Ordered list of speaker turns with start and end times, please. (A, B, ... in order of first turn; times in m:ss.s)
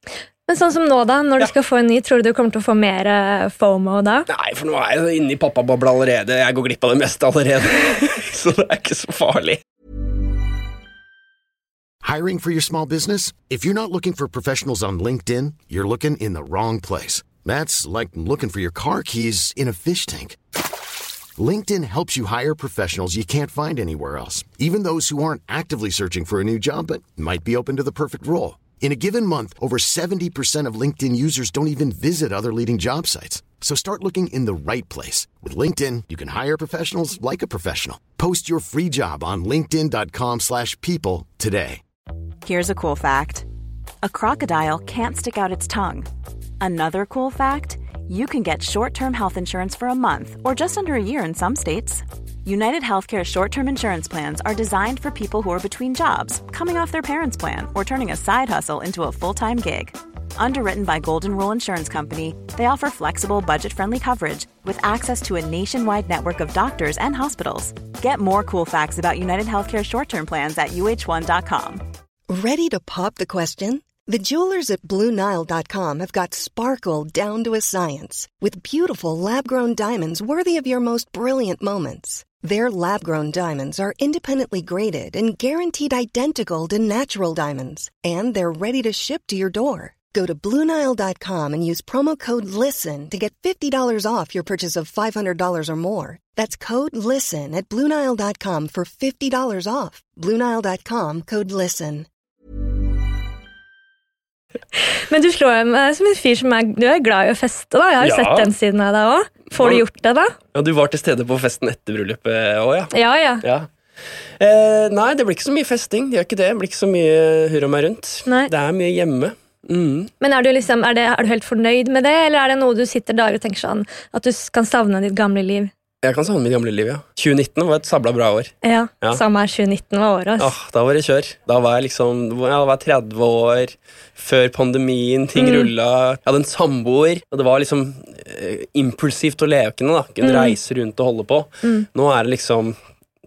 0:00.5-0:04.3 A
0:04.3-0:09.6 B
0:12.0-0:20.4 C
0:21.4-0:41.8 C
0:42.4-0:43.5 D
0:44.0-0:46.1 D
0:46.6-1:11.8 D
1:12.3-1:42.1 E
1:45.0-1:50.3 A
1:48.0-1:48.5 B
1:49.6-1:49.8 B
1:50.5-1:52.9 B
1:52.9-1:53.4 A
1:53.4-1:53.7 B
1:54.4-2:00.1 B
2:00.2-2:05.7 A
2:06.0-2:09.2 B
2:08.6-2:10.5 A
2:10.4-2:22.8 B
2:15.4-2:15.7 A
2:20.2-2:20.6 A